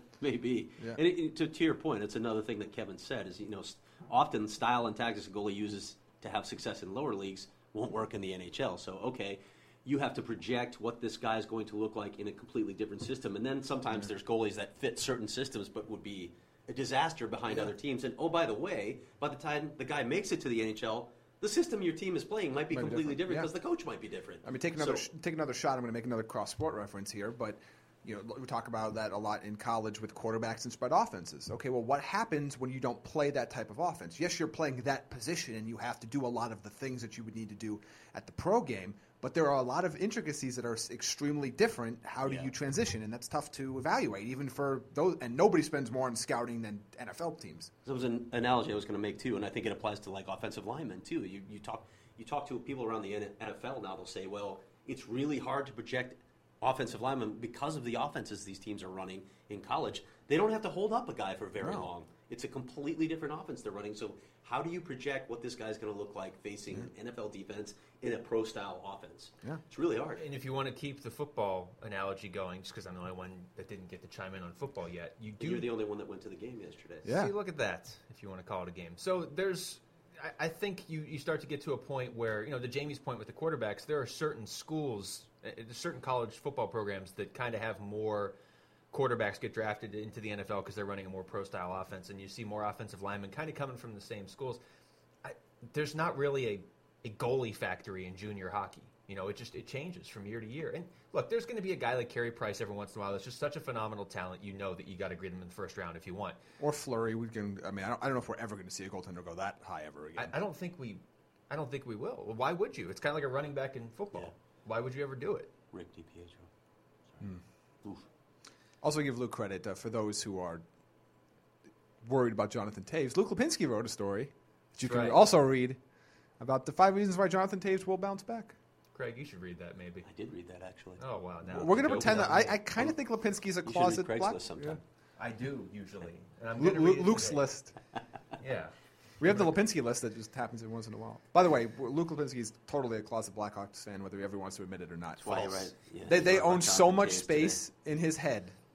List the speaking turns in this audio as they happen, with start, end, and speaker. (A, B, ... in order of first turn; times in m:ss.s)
0:00.2-0:25.1 A
0:22.7-0:23.5 B
0:24.4-0:47.7 B
0:42.2-0:42.5 A
0:47.8-1:10.2 A
1:01.6-1:01.9 B
1:10.2-1:15.7 C
1:15.4-1:17.1 A
1:17.0-1:17.3 B
1:17.1-1:28.4 C
1:28.9-1:34.6 C
1:35.2-1:46.4 C
1:46.6-1:50.3 B
1:50.2-1:55.5 C
1:55.7-1:56.5 A
1:58.8-2:00.6 B
2:02.0-2:05.8 B
2:04.8-2:05.2 C
2:06.4-2:08.6 B
2:08.9-2:10.1 C
2:10.0-2:11.0 A
2:11.0-2:12.5 C
2:11.5-2:14.8 B
2:11.7-2:13.0 A
2:13.6-2:14.8 A
2:15.2-2:17.5 C
2:16.6-2:17.7 B
2:18.4-2:18.7 C
2:19.2-2:28.5 B
2:19.2-2:19.6 C
2:25.2-2:27.6 A